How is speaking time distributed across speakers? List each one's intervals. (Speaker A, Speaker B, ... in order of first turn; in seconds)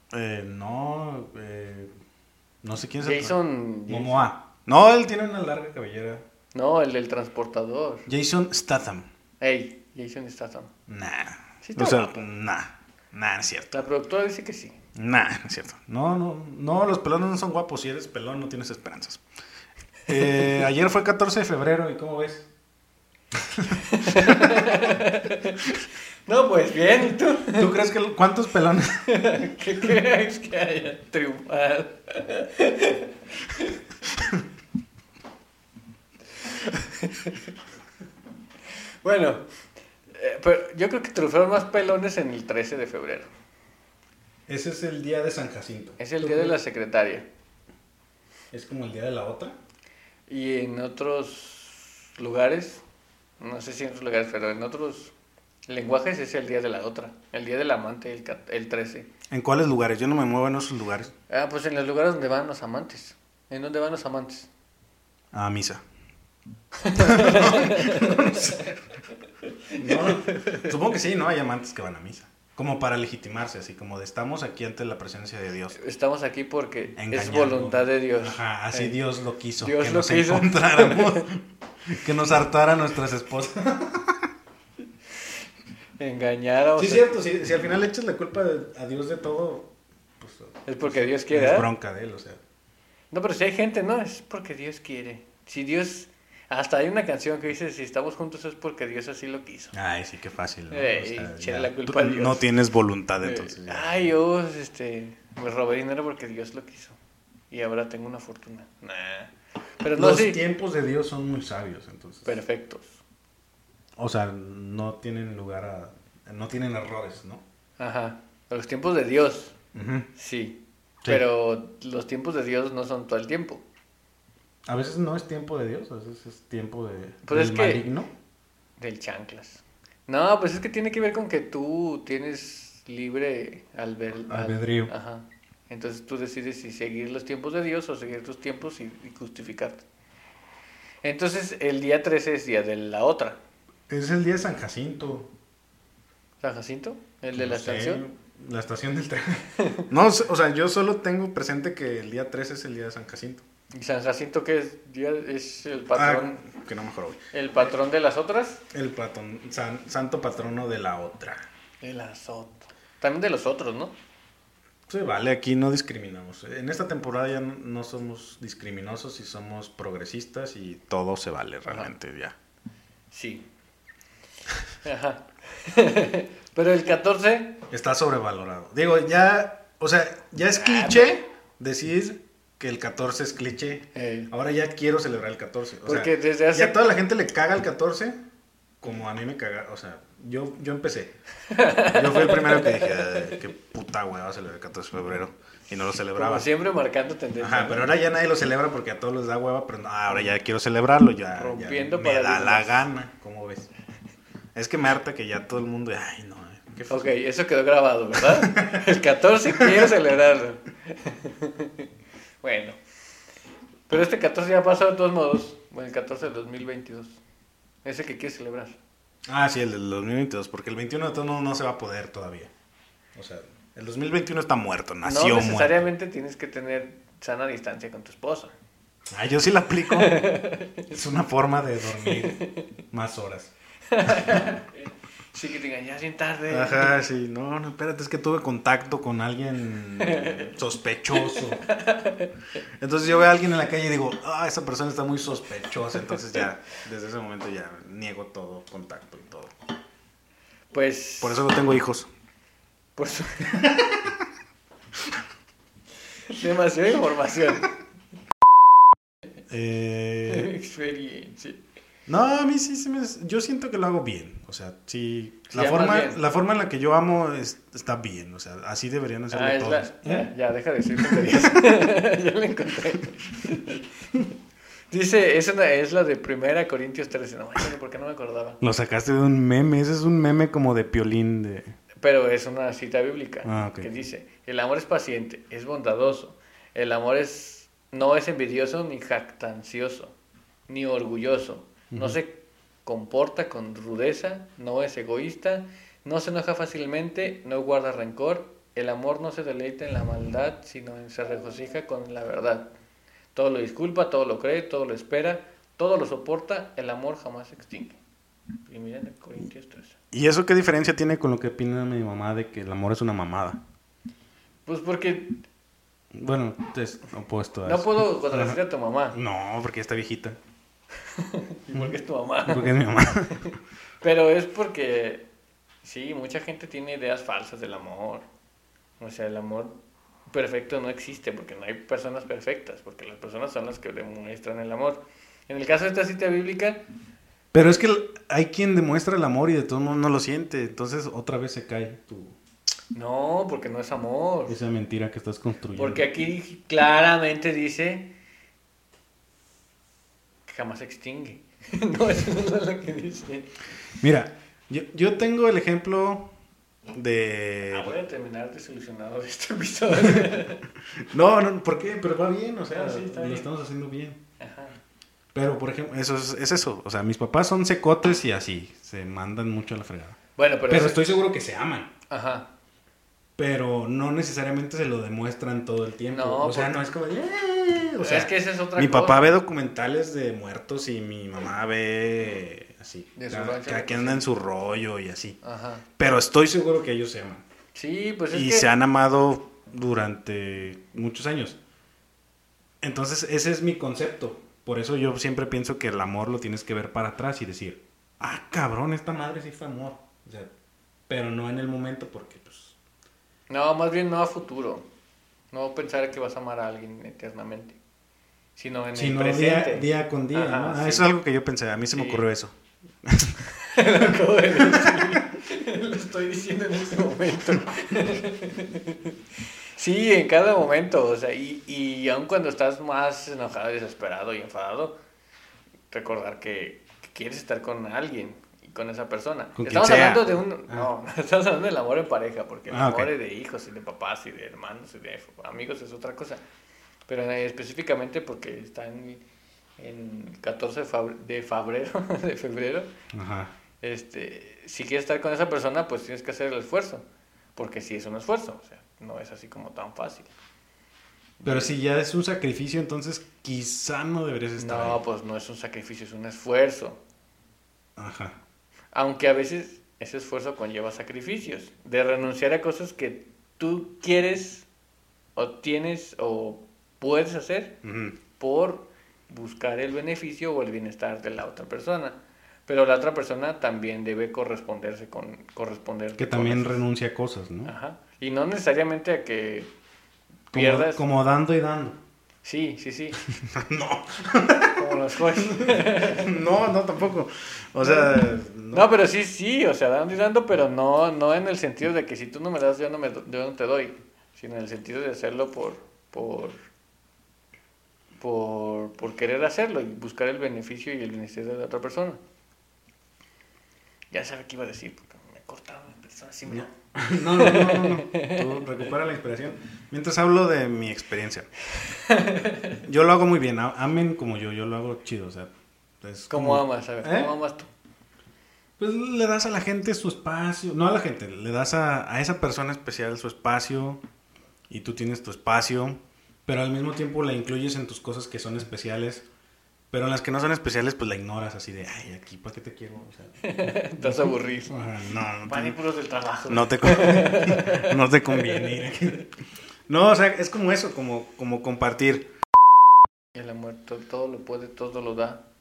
Speaker A: 0.1-1.9, 2.6-6.2, 8.1-9.1, 10.9-13.8, 14.9-19.2, 20.1-22.5, 23.5-24.6, 27.6-29.1, 44.5-46.5, 48.5-49.5, 59.3-61.1, 65.3-65.8, 66.9-68.8, 69.8-75.8, 77.0-84.3, 86.8-92.4, 99.7-104.0, 109.9-112.4, 114.0-117.4, 119.7-120.1, 124.7-128.1, 134.3-134.9, 143.9-145.3, 147.3-153.4, 155.9-157.2, 158.7-161.4, 164.9-172.3, 177.7-188.2, 188.8-191.1, 191.9-196.5, 197.4-203.7, 204.5-207.1, 208.2-208.8, 209.6-209.9, 219.2-222.5, 223.1-225.9, 229.1-230.2, 230.9-232.4, 232.9-233.5, 236.5-241.7, 242.8-249.5, 251.2-252.1, 253.6-254.1, 259.5-260.5, 262.1-270.3, 271.0-271.6, 278.6-281.7, 283.4-283.9, 291.9-292.2, 310.1-313.6, 316.1-318.6, 319.1-320.4, 321.7-323.4, 337.5-342.4, 344.5-346.0, 354.0-356.3, 356.9-358.0, 360.0-360.4, 361.1-364.2, 365.3-370.2, 370.7-371.9, 373.4-385.4, 386.0-387.4, 388.3-391.6, 392.8-400.5, 401.1-402.8, 408.9-413.4, 414.5-415.2, 429.6-430.9, 432.7-433.1, 443.1-443.5, 451.4-455.0, 458.0-458.4, 467.8-468.2, 476.2-477.7, 480.5-482.0, 483.3-488.9, 506.5-511.5, 512.8-515.5, 516.0-517.3, 518.8-524.0, 524.7-529.2, 529.9-535.8, 536.5-539.3, 539.9-542.3
Speaker B: 3.0-4.3, 6.5-8.1, 9.4-10.7, 11.6-12.2, 13.7-14.8, 23.9-25.6, 26.2-27.7, 29.1-33.8, 36.4-37.5, 39.0-39.4, 40.1-43.3, 46.0-47.2, 50.3-52.8, 53.4-55.1, 55.7-59.1, 61.3-64.5, 66.8-68.6, 69.8-70.7, 75.7-79.0, 79.6-81.3, 86.0-87.2, 90.7-91.7, 93.1-99.8, 100.7-102.5, 103.2-107.0, 107.5-110.4, 112.2-113.0, 117.8-119.5, 120.2-123.6, 127.2-127.9, 128.8-139.8, 141.0-143.4, 146.4-148.0, 149.6-149.8, 153.7-156.4, 157.3-158.6, 161.8-163.9, 171.7-171.9, 173.1-173.4, 174.8-177.6, 180.5-181.2, 183.9-184.3, 185.8-186.8, 191.5-193.3, 196.1-197.9, 201.3-202.8, 206.9-211.8, 212.4-212.8, 213.9-217.2, 217.8-218.8, 225.0-228.5, 229.9-231.0, 231.9-232.7, 233.9-237.0, 240.0-240.5, 241.1-242.3, 250.7-251.5, 252.9-253.8, 256.3-257.7, 260.3-261.6, 265.5-266.2, 269.3-274.3, 274.9-278.6, 282.0-290.1, 290.7-302.7, 303.3-308.0, 308.6-310.0, 314.6-315.4, 317.6-319.2, 321.1-325.3, 325.8-328.2, 329.0-329.7, 330.3-336.8, 342.9-344.6, 345.7-348.1, 350.5-353.5, 357.6-360.6, 362.7-363.5, 364.4-364.8, 370.4-371.2, 372.1-372.5, 376.1-376.8, 378.0-379.3, 383.1-384.2, 385.4-385.9, 387.7-388.7, 403.5-404.9, 405.5-407.8, 408.6-411.1, 411.9-412.2, 413.6-419.2, 419.8-424.9, 425.9-436.4, 437.1-439.2, 439.8-442.9, 443.8-447.0, 447.6-450.3, 451.4-451.8, 454.6-457.0, 458.9-464.7, 465.4-467.8, 468.4-476.8, 477.6-479.7, 480.5-481.0, 482.4-483.2, 484.7-486.4, 487.8-496.6, 498.2-502.2, 504.1-508.8, 511.9-512.8, 516.3-517.7, 533.4-534.8, 535.5-538.9, 543.3-545.4